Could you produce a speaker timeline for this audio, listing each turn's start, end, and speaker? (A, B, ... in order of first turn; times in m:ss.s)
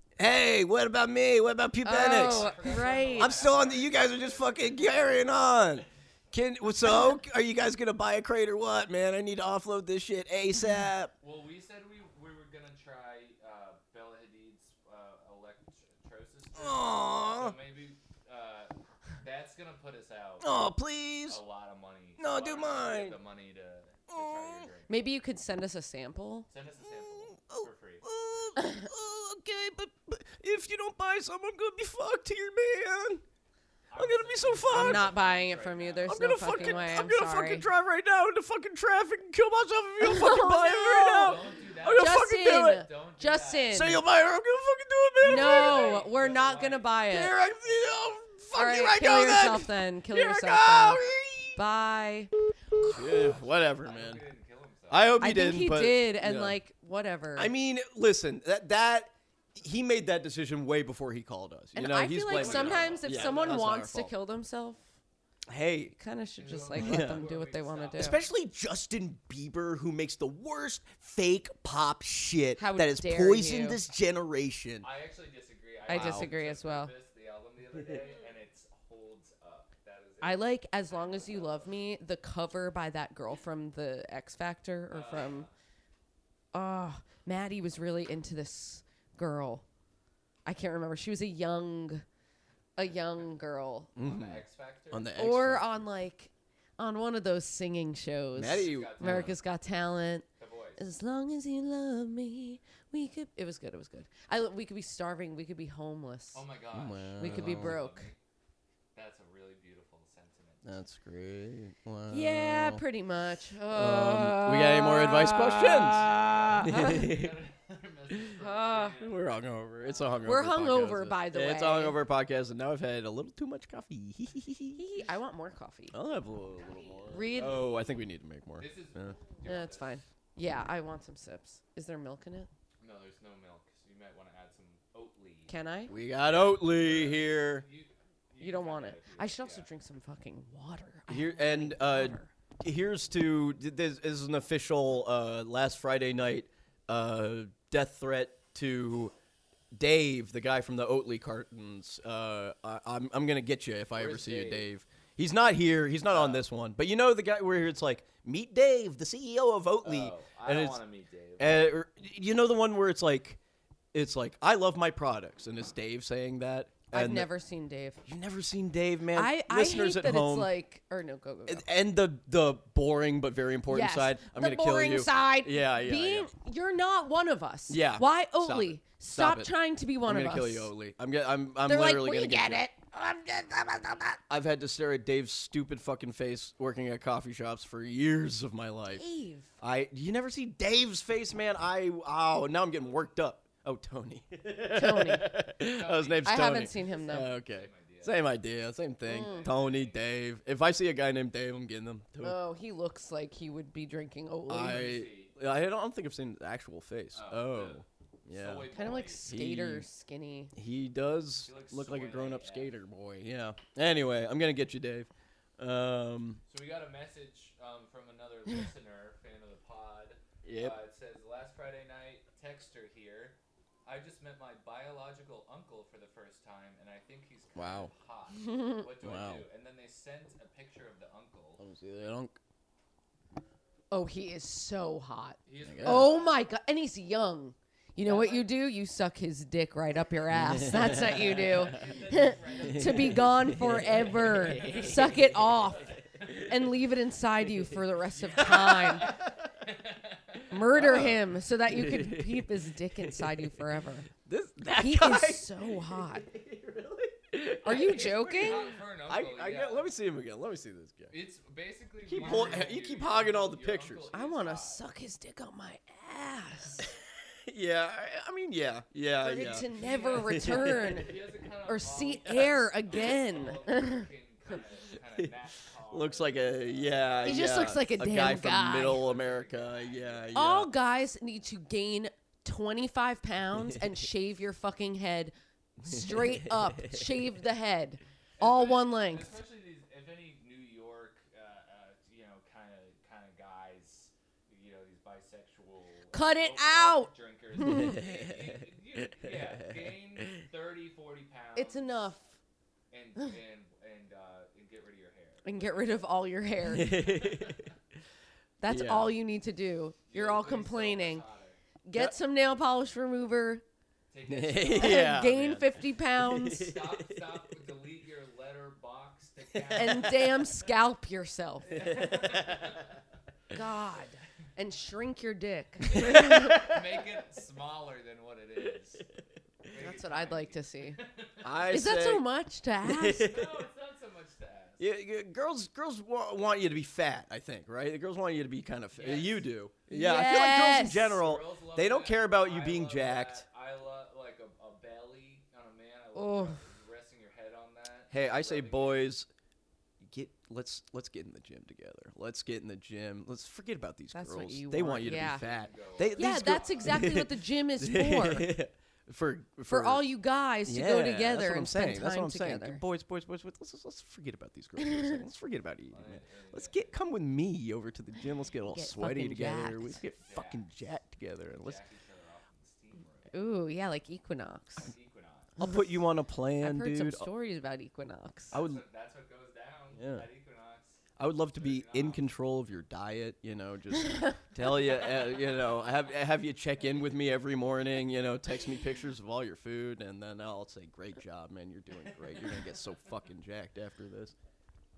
0:00.2-0:11.1 A
0:01.8-0:03.5 B
0:01.9-0:05.4 C
0:11.2-0:20.6 C
0:16.6-0:17.6 A
0:20.4-0:21.4 A
0:21.3-0:25.0 C
0:22.2-0:23.2 A
0:24.1-0:24.7 A
0:24.9-0:26.5 B
0:26.5-0:28.0 C
0:26.9-0:33.2 A
0:33.9-0:37.0 C
0:34.0-0:35.1 A
0:34.7-0:37.7 B
0:36.1-0:42.8 A
0:40.0-0:41.4 B
0:41.1-0:43.8 C
0:42.0-0:44.0 B
0:43.7-0:46.0 A
0:45.2-0:47.4 B
0:45.2-0:46.9 C
0:47.1-0:51.6 A
0:48.5-0:52.3 B
0:52.8-0:54.2 A
0:53.1-0:55.1 C
0:54.9-0:56.6 A
0:55.2-0:57.5 B
0:57.4-1:04.1 A
1:01.8-1:04.9 B
1:02.3-1:03.7 C
1:05.5-1:06.0 A
1:06.0-1:08.2 B
1:06.4-1:08.3 C
1:06.8-1:07.3 A
1:08.0-1:14.9 A
1:12.6-1:13.8 B
1:14.8-1:21.7 C
1:15.9-1:16.9 B
1:15.9-1:16.3 A
1:20.2-1:25.5 B
1:24.9-1:25.5 C
1:26.5-1:29.6 B
1:30.5-1:32.0 B
1:32.8-1:33.9 B
1:34.0-1:35.8 A
1:34.0-1:35.2 C
1:35.2-1:40.3 B
1:38.4-1:39.4 A
1:38.5-1:39.4 C
1:40.4-1:40.8 C
1:40.8-1:46.4 B
1:46.3-1:48.2 C
1:46.7-1:47.8 A
1:47.2-1:48.1 B
1:49.0-1:50.7 C
1:50.6-1:52.8 A
1:52.1-1:57.1 B
1:53.7-1:57.4 A
1:55.7-2:00.4 C
1:58.4-1:59.0 B
1:59.0-2:04.8 A
2:00.2-2:02.0 B
2:04.8-2:06.0 B
2:05.9-2:09.2 A
2:06.6-2:07.4 C
2:07.1-2:07.7 B
2:08.6-2:10.0 C
2:09.4-2:12.5 B
2:12.8-2:15.5 C
2:15.5-2:15.9 B
2:15.9-2:17.7 A
2:16.2-2:19.7 C
2:18.4-2:22.3 B
2:21.1-2:29.1 A
2:29.7-2:40.8 A
2:33.9-2:34.7 C
2:36.1-2:36.4 C
2:39.8-2:41.7 C
2:41.4-2:43.4 A
2:43.9-2:47.3 A
2:46.9-2:48.0 B
2:48.1-2:50.5 A
2:49.1-2:51.7 B
2:51.5-2:56.3 A
2:53.7-3:00.7 B
2:57.7-2:59.5 A
3:00.0-3:02.6 A
3:01.7-3:04.2 B
3:04.3-3:09.0 A
3:08.9-3:09.5 B
3:09.6-3:22.4 A
3:14.7-3:15.4 B
3:15.6-3:18.3 C
3:16.2-3:17.3 B
3:19.1-3:19.5 B
3:19.1-3:20.1 C
3:22.2-3:24.9 B
3:24.5-3:28.7 A
3:24.6-3:25.3 C
3:27.1-3:29.2 C
3:28.7-3:30.5 B
3:29.2-3:29.9 A
3:30.6-3:36.4 A
3:31.4-3:32.8 C
3:36.5-3:51.6 C
3:40.4-3:40.8 A
3:47.6-3:47.9 A
3:48.4-3:48.8 B
3:49.0-3:49.4 A
3:51.6-3:52.4 A
3:53.9-4:09.2 B
3:55.5-3:56.4 C
3:55.6-3:56.2 A
3:58.0-3:58.5 C
4:00.3-4:01.8 A
4:01.2-4:03.3 C
4:02.6-4:06.6 A
4:04.5-4:06.0 C
4:08.1-4:10.5 C
4:08.4-4:09.3 A
4:10.5-4:14.1 B
4:10.7-4:13.6 A
4:14.2-4:21.1 A
4:14.7-4:16.2 B
4:17.6-4:18.7 B
4:17.9-4:19.9 C
4:21.1-4:24.8 C
4:22.1-4:24.1 A
4:22.2-4:22.6 B
4:24.1-4:26.9 B
4:26.8-4:31.1 A
4:29.2-4:31.1 B
4:29.5-4:37.9 C
4:31.7-4:34.1 B
4:35.9-4:40.7 A
4:37.2-4:39.0 B
4:38.8-4:40.5 C
4:40.3-4:49.3 B
4:45.8-4:47.2 A
4:48.4-5:02.1 C
4:56.1-4:58.0 B
4:57.6-5:00.4 A
5:01.6-5:02.3 B
5:02.9-5:06.1 C
5:05.4-5:06.9 B
5:06.7-5:07.6 A
5:06.9-5:07.7 C
5:08.6-5:11.2 B
5:08.7-5:09.2 A
5:10.1-5:11.6 C
5:11.9-5:13.6 B
5:14.1-5:15.5 C
5:14.3-5:17.2 A
5:14.8-5:16.7 B
5:16.4-5:20.6 C
5:19.6-5:20.0 A
5:19.8-5:22.1 B
5:21.7-5:23.0 C
5:21.8-5:22.7 A
5:23.5-5:26.7 B
5:25.9-5:29.1 C
5:25.9-5:26.9 A
5:29.6-5:31.6 C
5:29.8-5:31.0 B
5:31.4-5:32.2 A
5:31.7-5:33.3 B
5:32.8-5:33.6 A
5:33.2-5:34.9 C
5:34.8-5:43.4 A
5:38.9-5:39.5 C
5:39.9-5:41.1 B
5:41.0-5:49.0 C
5:46.2-5:46.6 B
5:48.1-5:49.3 A
5:50.0-6:00.1 A
5:54.1-5:55.4 B
5:55.1-5:57.1 C
5:56.2-5:58.5 B
5:59.7-6:02.8 B
6:00.7-6:11.8 A
6:04.8-6:05.2 B
6:05.9-6:07.0 C
6:08.6-6:10.0 B
6:10.2-6:10.7 C
6:11.6-6:13.3 C
6:13.3-6:14.9 B
6:14.8-6:15.5 C
6:15.6-6:17.3 A
6:16.6-6:18.6 B
6:18.5-6:18.8 A
6:18.5-6:21.0 C
6:20.0-6:20.3 A
6:21.2-6:34.4 A
6:21.6-6:22.2 C
6:24.0-6:24.4 B
6:25.1-6:26.0 C